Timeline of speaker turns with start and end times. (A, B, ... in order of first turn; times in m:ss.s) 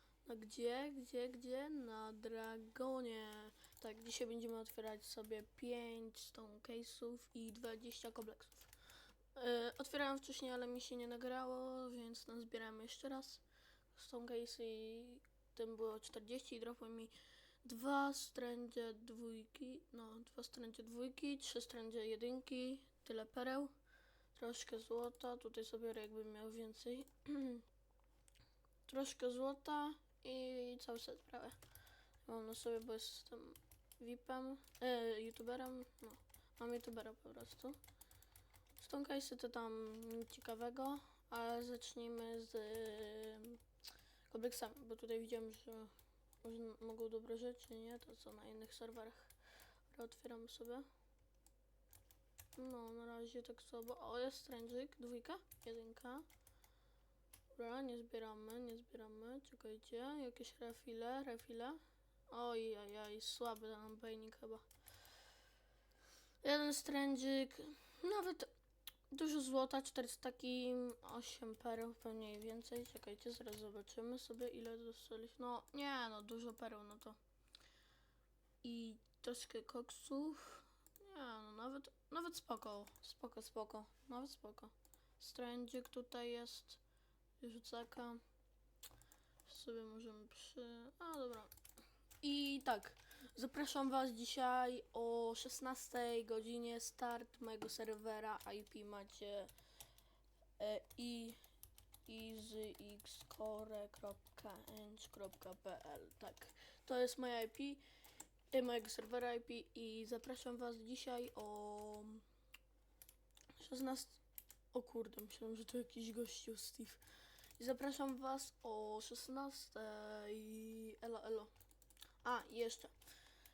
0:00.2-0:08.7 A
0:09.4-0:17.1 A
0:17.6-0:23.7 A
0:24.3-0:27.6 A
0:28.9-0:31.6 A
0:32.2-0:37.8 A
0:38.8-0:43.6 A
0:44.3-0:45.9 A
0:46.4-0:49.3 A
0:49.9-0:50.9 A
0:52.6-0:56.2 A
0:57.5-1:01.8 A
1:02.3-1:04.6 A
1:06.4-1:08.5 A
1:09.1-1:17.2 A
1:18.6-1:26.8 A
1:27.4-1:28.2 A
1:29.5-1:31.5 A
1:32.2-1:39.5 A
1:40.6-1:41.4 A
1:42.1-1:47.8 A
1:48.5-1:52.2 A
1:53.6-1:54.2 A
1:54.7-1:57.0 A
1:57.6-2:01.5 A
2:02.2-2:02.9 A